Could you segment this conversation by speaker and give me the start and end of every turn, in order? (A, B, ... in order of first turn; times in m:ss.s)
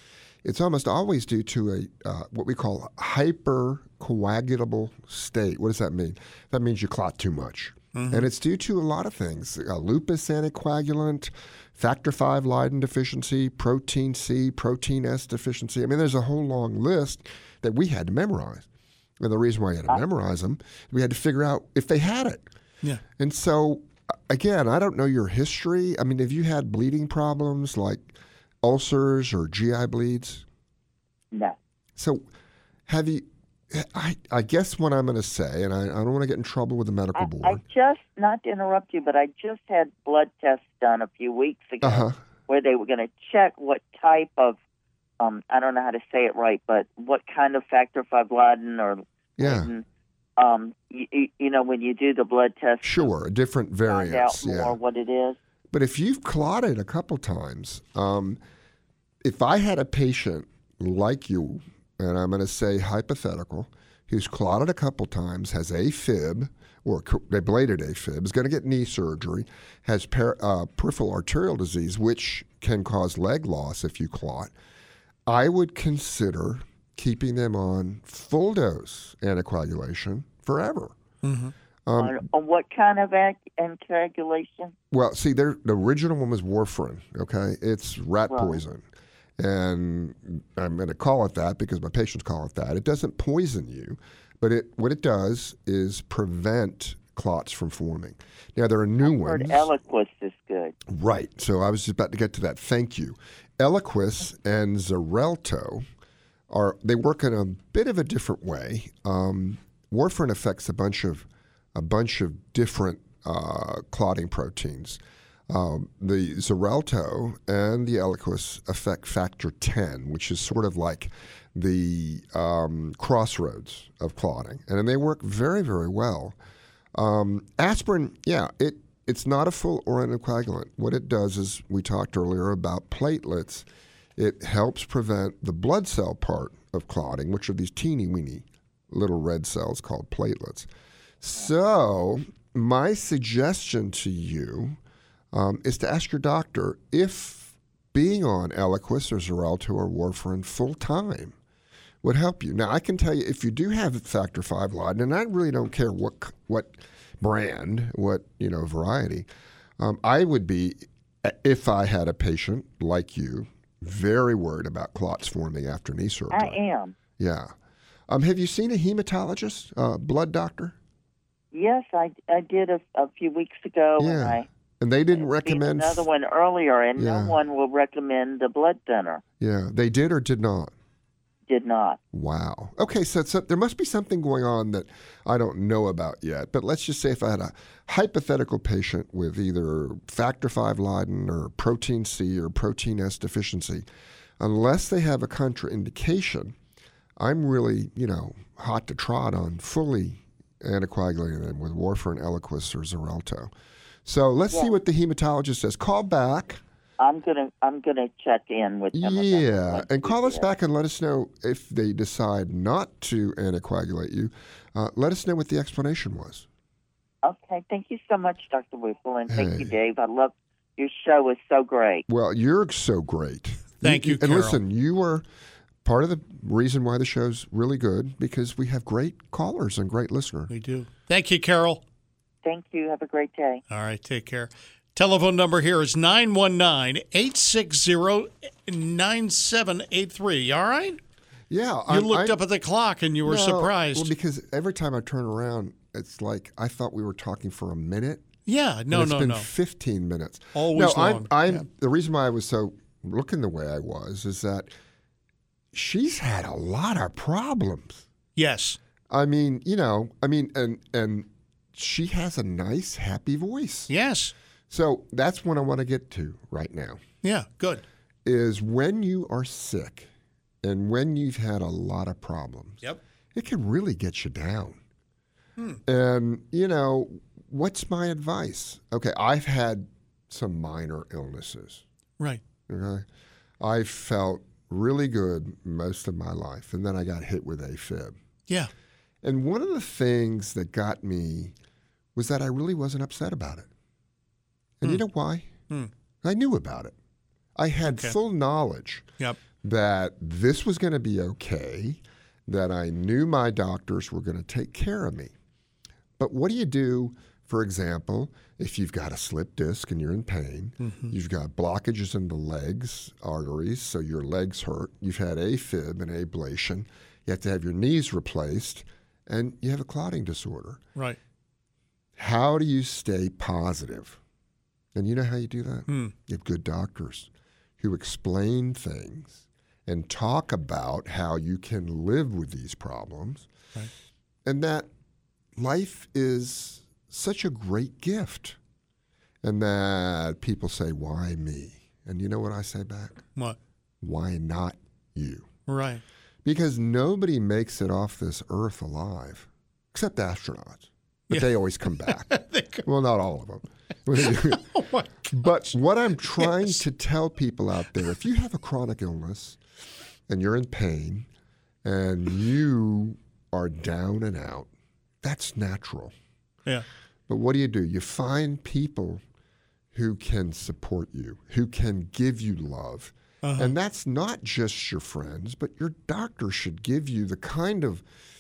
0:00.4-0:18.6 A
0:07.9-0:08.3 B
0:19.2-0:22.4 A
0:23.2-0:30.4 A
0:32.0-0:32.2 A
0:32.9-0:37.6 A
0:37.2-0:44.6 C
0:41.8-0:42.2 A
0:45.2-0:49.8 C
0:49.4-0:49.7 A
0:50.4-0:53.1 C
0:52.8-0:54.8 A
0:53.9-0:55.4 C
0:55.7-0:58.4 A
0:59.2-1:14.5 A
1:15.2-1:20.9 A
1:21.2-1:21.5 B
1:21.9-1:22.2 A
1:22.0-1:24.7 C
1:24.9-1:28.8 A
1:28.3-1:28.6 C
1:29.4-1:39.7 A
1:39.0-1:40.7 C
1:40.9-1:45.8 A
1:46.5-2:06.4 A
2:06.9-2:13.6 A
2:14.2-2:20.7 A
2:21.2-2:24.8 A
2:25.3-2:31.4 A
2:32.0-2:39.3 A
2:39.8-2:46.6 A
2:46.3-2:47.0 C
2:47.2-2:47.5 A
2:48.1-2:50.8 A
2:51.5-2:54.4 C
2:54.0-2:56.1 A
2:55.1-2:59.2 C
2:57.0-2:57.4 A
2:59.4-3:00.7 A
3:01.5-3:02.0 C
3:02.1-3:13.8 A
3:14.4-3:16.6 A
3:17.2-3:23.5 A
3:24.0-3:26.6 A
3:27.0-3:30.4 C
3:28.9-3:36.4 A
3:37.2-3:42.0 C
3:39.3-3:39.7 A
3:42.1-3:45.2 A
3:43.8-3:44.6 B
3:45.8-3:50.5 A
3:50.5-3:51.8 B
3:52.4-3:53.6 C
3:53.7-4:01.0 B
4:01.5-4:02.4 A
4:01.9-4:04.1 B
4:03.2-4:08.2 A
4:08.4-4:09.5 B
4:08.9-4:14.7 A
4:10.5-4:11.6 B
4:15.7-4:18.0 A
4:18.4-4:18.8 B
4:19.1-4:23.9 A
4:23.9-4:24.3 B
4:24.7-4:27.0 A
4:27.2-4:27.8 B
4:28.2-4:30.1 A
4:30.6-4:32.8 A
4:33.3-4:34.8 A
4:35.8-4:41.8 A
4:42.7-4:43.0 A
4:43.6-4:48.1 A
4:49.2-4:51.6 A
4:52.1-4:53.7 A
4:54.8-4:55.5 A
4:56.2-4:56.9 A
4:57.6-4:59.1 A
4:57.9-4:58.2 B
4:59.6-5:05.3 A
5:06.2-5:20.8 A
5:10.8-5:11.1 B
5:22.2-5:24.2 A
5:24.9-5:33.5 A
5:25.9-5:26.1 B
5:34.4-5:34.9 A
5:35.6-5:38.6 A
5:39.4-5:43.2 A
5:44.0-5:45.5 A
5:45.7-5:46.0 B
5:46.4-5:52.3 A
5:52.0-5:52.8 B
5:52.8-5:54.7 A
5:54.2-5:55.7 B
5:55.3-5:59.6 A
5:56.2-5:56.8 B
6:00.3-6:01.3 A
6:01.8-6:04.7 A
6:05.2-6:06.1 A
6:07.3-6:09.2 A
6:09.9-6:18.0 A
6:13.4-6:13.7 B